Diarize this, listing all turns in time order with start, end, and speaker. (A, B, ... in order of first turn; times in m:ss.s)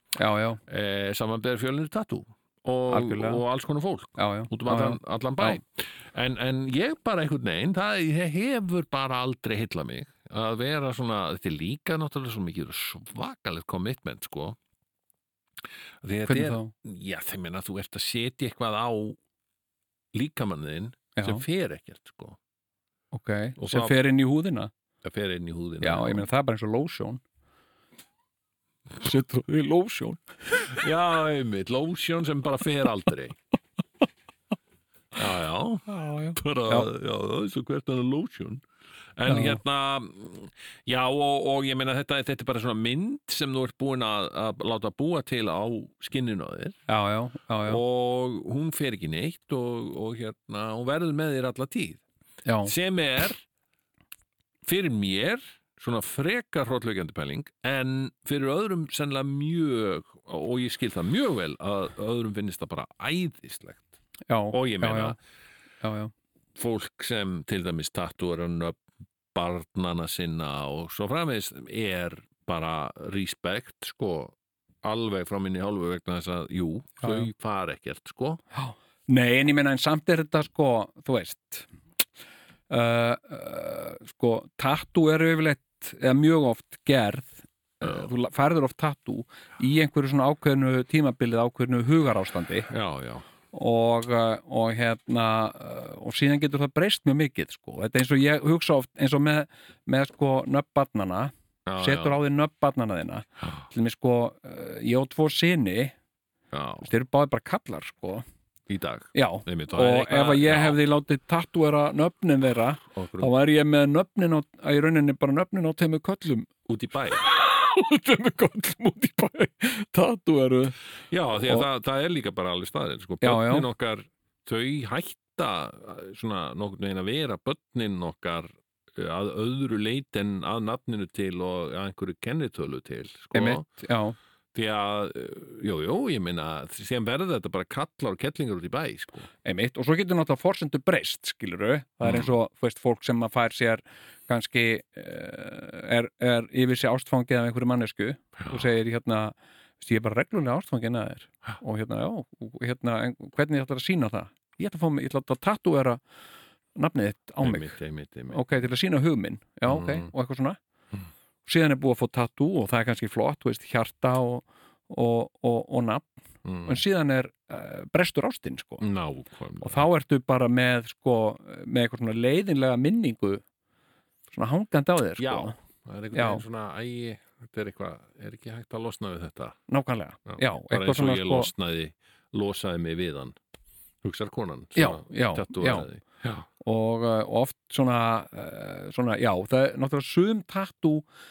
0:00.1-0:00.6 A
0:00.7-0:14.6 B
0:02.9-0:03.4 A
0:04.2-0:05.6 A
0:16.0-0:19.2 B
0:16.3-0:16.7 A
0:20.1-0:22.4 B
0:21.2-0:21.4 A
0:23.1-0:24.7 A
0:23.6-0:24.0 B
0:25.0-0:26.2 B
0:25.8-0:27.2 A
0:29.0-0:30.8 A
0:30.6-0:33.4 B
0:35.1-0:38.6 B
0:35.9-0:36.9 A
0:39.2-0:46.8 B
0:39.2-0:39.6 A
0:46.9-0:47.8 A
0:47.7-0:52.0 B
0:52.4-0:52.7 A
0:52.6-0:53.4 B
0:54.6-1:04.0 B
1:04.3-1:05.2 A
1:04.5-1:05.2 B
1:05.8-1:06.1 A
1:06.6-1:08.8 B
1:09.3-1:18.4 B
1:17.0-1:17.3 A
1:18.5-1:21.7 A
1:22.7-1:32.7 A
1:32.7-1:33.2 B
1:33.5-1:45.9 A
1:41.6-1:42.2 B
1:46.5-1:46.9 B
1:46.8-1:48.2 A
1:48.7-1:50.8 B
1:49.1-1:56.5 A
1:52.9-1:53.3 B
1:56.6-1:57.2 B
1:57.2-2:00.8 A
2:01.1-2:13.6 B
2:03.2-2:03.7 A
2:13.3-2:14.2 A
2:14.5-2:19.3 B
2:19.4-2:36.0 A
2:22.0-2:22.3 B
2:28.4-2:28.6 B
2:36.8-2:37.7 A
2:37.4-2:38.4 B
2:38.3-2:40.6 A
2:39.6-2:40.1 B
2:41.4-2:46.1 A
2:46.4-2:46.8 B
2:46.6-2:48.8 A
2:48.8-2:49.8 B
2:49.6-2:53.4 A
2:54.3-2:55.6 A
2:55.2-2:59.6 B
2:56.1-2:56.4 A
2:59.7-3:01.5 A
3:00.2-3:03.4 B
3:04.0-3:06.4 B
3:04.8-3:05.9 A
3:06.6-3:11.0 A